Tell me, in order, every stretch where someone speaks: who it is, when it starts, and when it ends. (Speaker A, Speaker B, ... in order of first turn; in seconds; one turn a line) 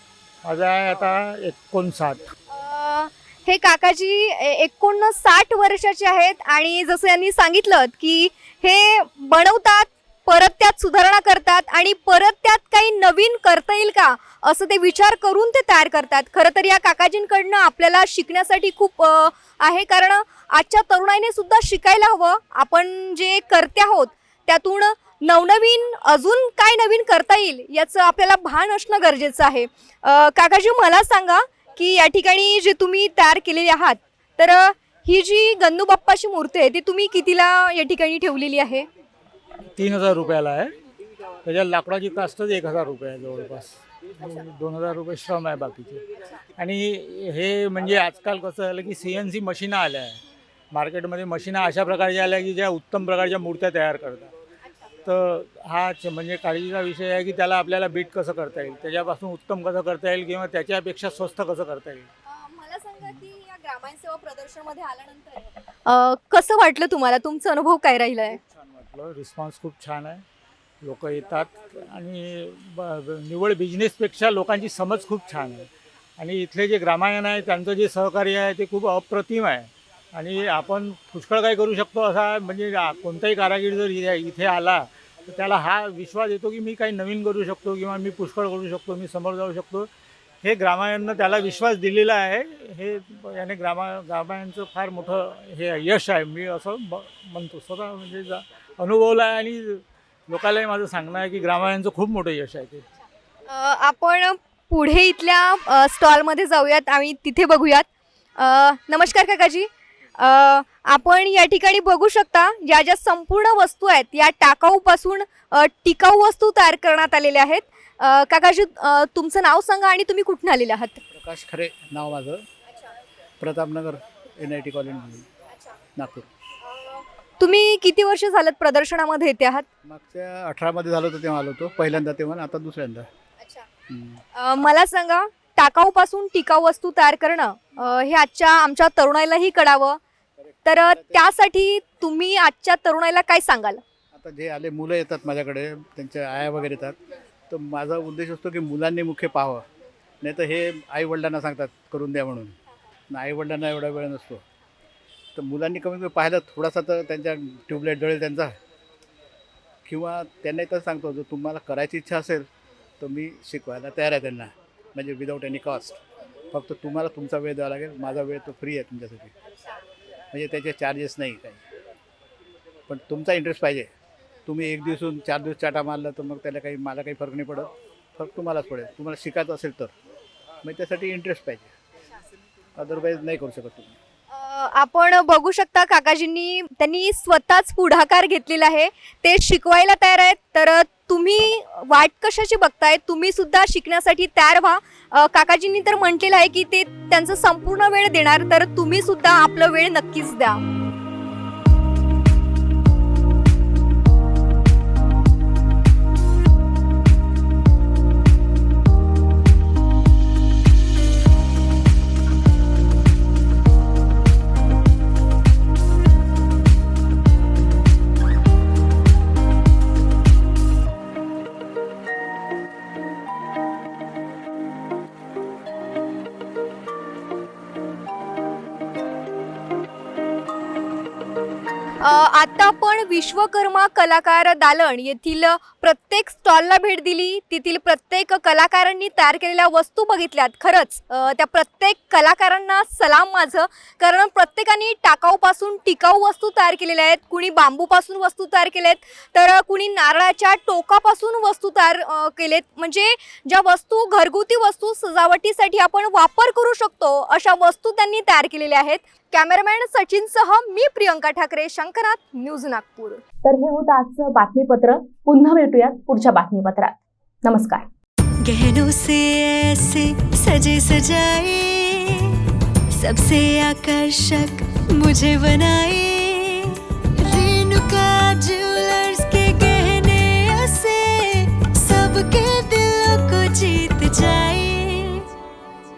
Speaker A: 0.4-2.3
Speaker B: 2.5-38.9
Speaker A: 39.8-40.8
Speaker A: 41.5-54.3
Speaker B: 54.6-54.9
Speaker A: 55.0-62.1
Speaker B: 62.3-68.4
Speaker A: 68.4-70.2
Speaker A: 70.8-89.9
Speaker A: 90.4-102.9
Speaker B: 103.5-107.9
Speaker B: 108.4-109.7
Speaker B: 110.2-121.0
Speaker C: 121.1-122.4
Speaker C: 123.4-125.3
Speaker B: 125.5-125.8
Speaker C: 126.0-126.3
Speaker B: 126.7-129.7
Speaker C: 129.8-133.1
Speaker B: 133.4-133.7
Speaker C: 133.9-134.2
Speaker B: 134.3-140.0
Speaker B: 140.7-143.8
Speaker C: 140.9-141.2
Speaker C: 144.1-147.0
Speaker C: 147.5-149.6
Speaker C: 150.2-152.6
Speaker C: 153.1-154.4
Speaker C: 155.4-158.6
Speaker C: 159.9-162.5
Speaker C: 163.0-169.3
Speaker C: 170.3-171.6
Speaker C: 172.9-173.9
Speaker C: 174.5-179.9
Speaker C: 180.6-181.7
Speaker C: 182.8-184.0
Speaker B: 184.3-200.6
Speaker B: 232.0-263.2
Speaker D: 263.4-267.9
Speaker E: 268.4-285.3